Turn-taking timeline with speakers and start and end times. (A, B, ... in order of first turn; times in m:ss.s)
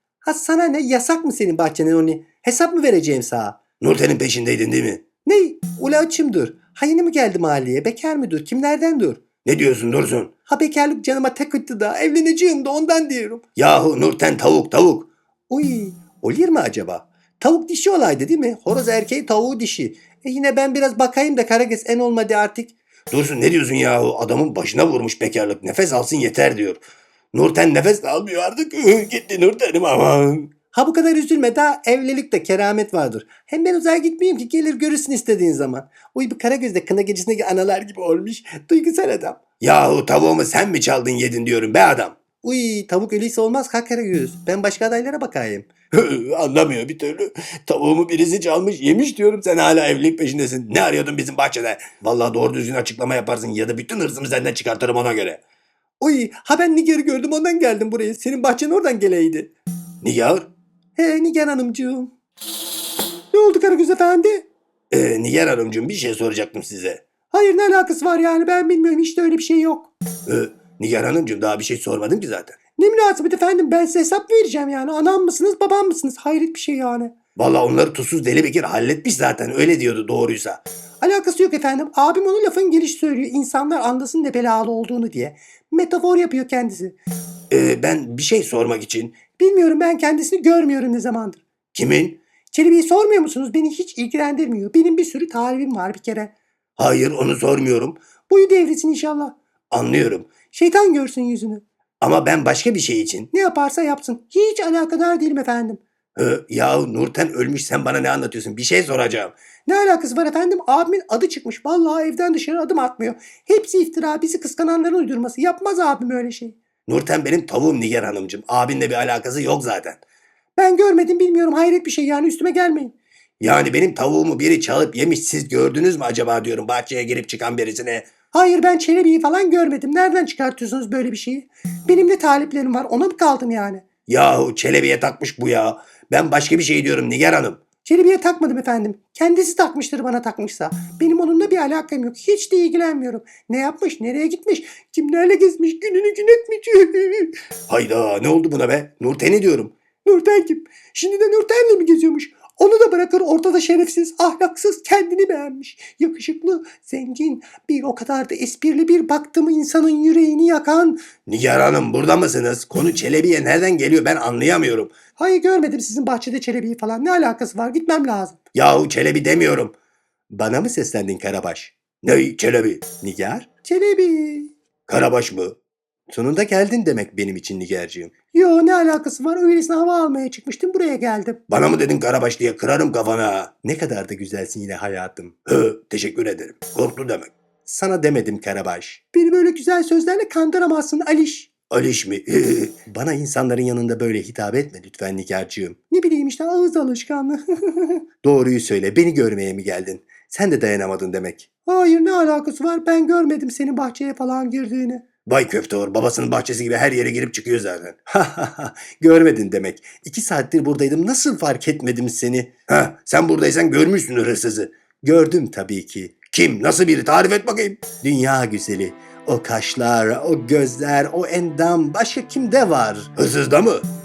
0:00.2-0:03.6 A
0:03.8-0:05.0 B
0:05.2-0:09.3 A
0:09.4-0:10.3 B
0:10.5-0:13.4 A
0:13.6-0:15.1 B
0:15.5-0:22.7 A
0:23.1-0:26.8 B
0:27.3-0:30.5 B
0:30.7-0:39.4 A
0:39.6-0:42.2 B
0:42.4-0:45.7 A
0:45.9-0:55.4 B
0:56.0-0:59.5 A
1:00.0-1:00.5 B
1:01.0-1:02.1 A
1:03.3-1:04.5 A
1:04.9-1:07.0 B
1:07.3-1:09.9 A
1:10.3-1:12.6 B
1:12.8-1:17.2 A
1:17.4-1:20.6 B
1:21.0-1:27.0 A
1:27.5-1:29.2 B
1:29.3-1:31.4 A
1:31.7-1:32.2 B
1:32.5-1:36.3 A
1:36.8-1:38.0 B
1:38.3-1:39.4 A
1:39.7-1:40.3 B
1:40.4-1:41.6 A
1:42.0-1:43.3 B
1:43.3-1:45.8 A
1:46.2-1:49.4 B
1:49.7-1:56.6 A
1:56.9-2:00.0 B
2:00.6-2:02.9 A
2:03.4-2:08.1 B
2:08.3-2:13.9 A
2:14.1-2:17.6 B
2:17.8-2:27.4 A
2:27.7-2:29.7 B
2:30.0-2:41.1 A
2:41.2-2:45.0 B
2:45.2-2:48.4 A
2:48.5-2:49.7 B
2:50.3-2:51.7 A
2:52.0-2:53.0 B
2:53.0-2:54.5 A
2:54.9-2:55.6 B
2:56.1-3:01.4 A
3:01.5-3:03.5 B
3:03.6-3:05.4 A
3:05.5-3:07.3 B
3:07.7-3:11.5 A
3:11.7-3:12.8 B
3:12.9-3:25.1 A
3:25.2-3:28.0 B
3:28.1-3:32.5 A
3:32.7-3:34.7 B
3:35.0-3:36.2 A
3:36.2-3:37.9 B
3:37.9-3:43.1 A
3:43.2-3:43.8 B